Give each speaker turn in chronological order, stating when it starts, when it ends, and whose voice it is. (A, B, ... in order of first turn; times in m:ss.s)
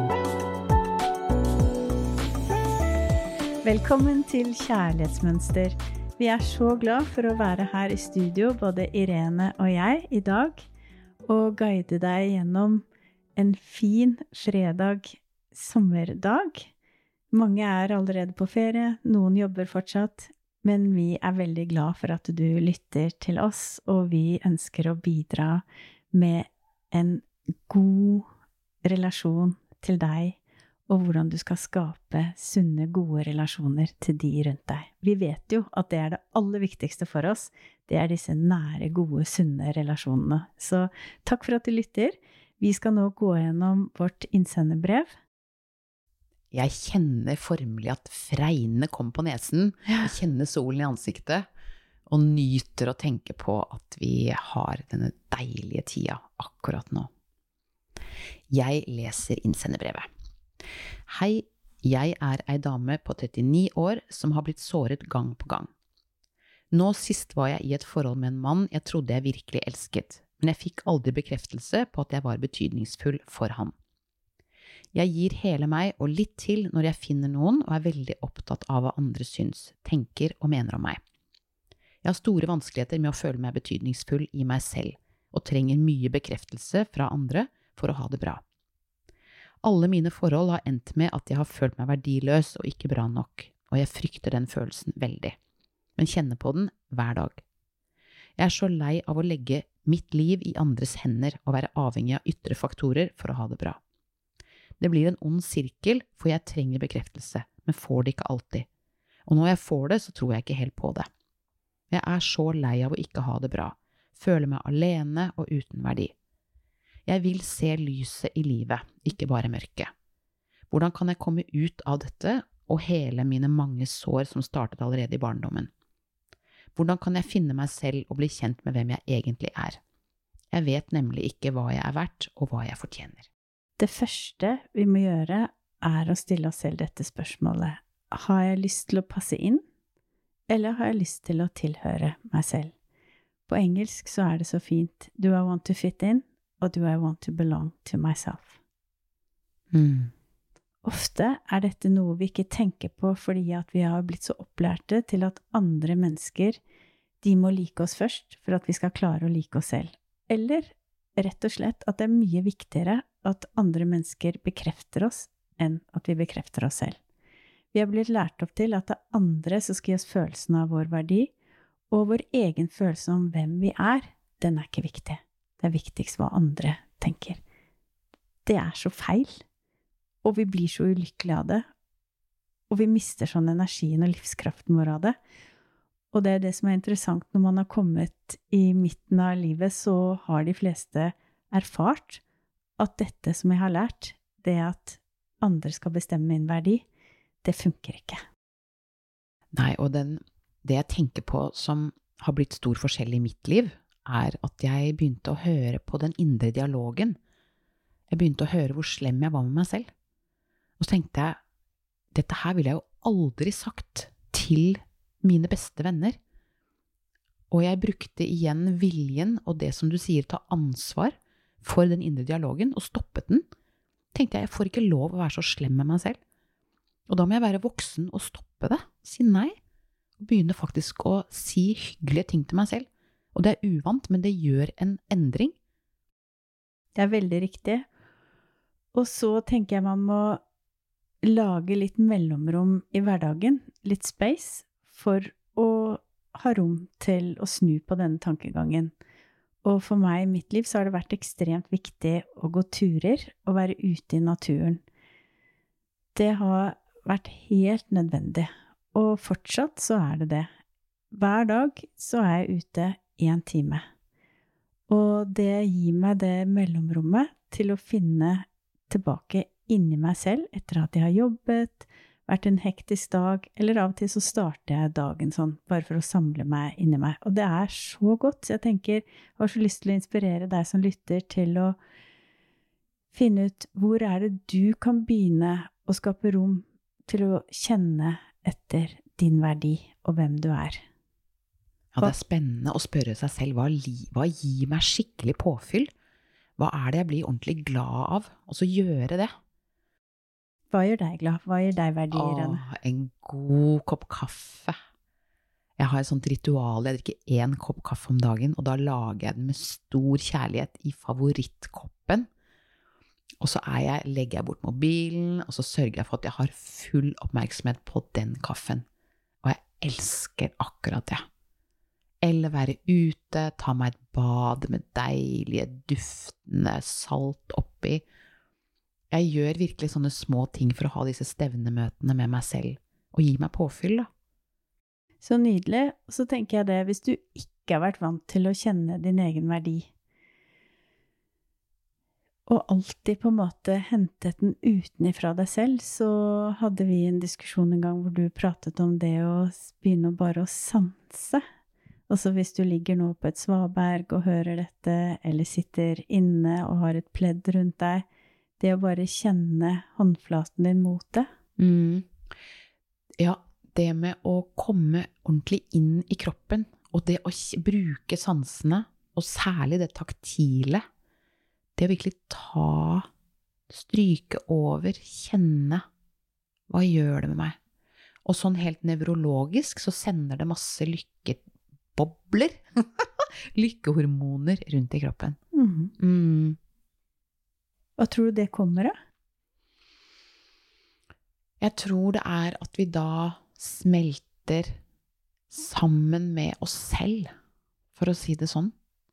0:03.6-0:10.6 A
0:11.3-0:16.7 A
0:17.3-0:28.2 A
0:28.8-0:30.4 A
0:30.9-0:45.1 A
0:46.5-0:51.5 B
0:52.1-0:57.1 B
0:58.5-1:00.0 B
1:01.1-1:05.7 B
1:06.7-1:13.7 B
1:14.9-1:21.0 B
1:22.0-1:28.4 B
1:29.6-1:35.3 B
1:36.0-1:37.4 B
1:38.4-1:43.8 B
1:44.8-1:48.7 B
1:49.3-1:51.1 B
1:51.9-1:56.1 B
1:57.0-1:59.9 B
2:00.7-2:05.7 B
2:06.7-2:09.8 B
2:10.5-2:13.3 B
2:13.8-2:19.6 A
2:20.5-2:22.7 A
2:23.5-2:28.6 A
2:29.7-2:30.1 B
2:30.8-2:36.6 A
2:37.2-2:47.0 A
2:47.7-2:51.3 A
2:51.9-2:57.4 A
2:58.4-2:59.4 A
3:00.2-3:01.6 A
3:02.7-3:05.2 A
3:06.1-3:12.2 A
3:12.8-3:16.8 A
3:17.4-3:18.2 A
3:19.5-3:27.2 B
3:28.1-3:29.9 B
3:30.8-3:31.4 B
3:32.1-3:36.2 B
3:37.5-3:43.4 B
3:44.1-3:46.2 B
3:47.1-3:49.5 B
3:50.2-3:55.5 B
3:57.0-3:57.9 A
3:58.9-4:00.4 A
4:01.2-4:08.9 A
4:09.6-4:14.8 A
4:16.1-4:20.5 A
4:21.1-4:23.8 A
4:24.9-4:41.8 A
4:43.1-4:50.8 A
4:51.9-4:55.9 B
4:56.6-4:59.3 B
5:00.7-5:02.6 A
5:02.1-5:04.7 B
5:05.8-5:12.2 B
5:13.4-5:18.8 B
5:19.4-5:21.2 B
5:22.2-5:28.0 B
5:29.1-5:34.1 B
5:35.2-5:39.9 A
5:42.5-5:51.4 A
5:52.1-5:58.0 A
5:58.6-6:01.3 A
6:01.6-6:02.1 B
6:03.2-6:10.8 B
6:11.8-6:13.1 B
6:13.7-6:15.8 B
6:16.7-6:17.6 B
6:18.2-6:21.4 B
6:22.0-6:25.4 B
6:25.5-6:25.9 A
6:26.0-6:26.6 B
6:28.0-6:28.9 A
6:31.6-6:34.8 B
6:35.5-6:37.3 B
6:37.9-6:38.7 B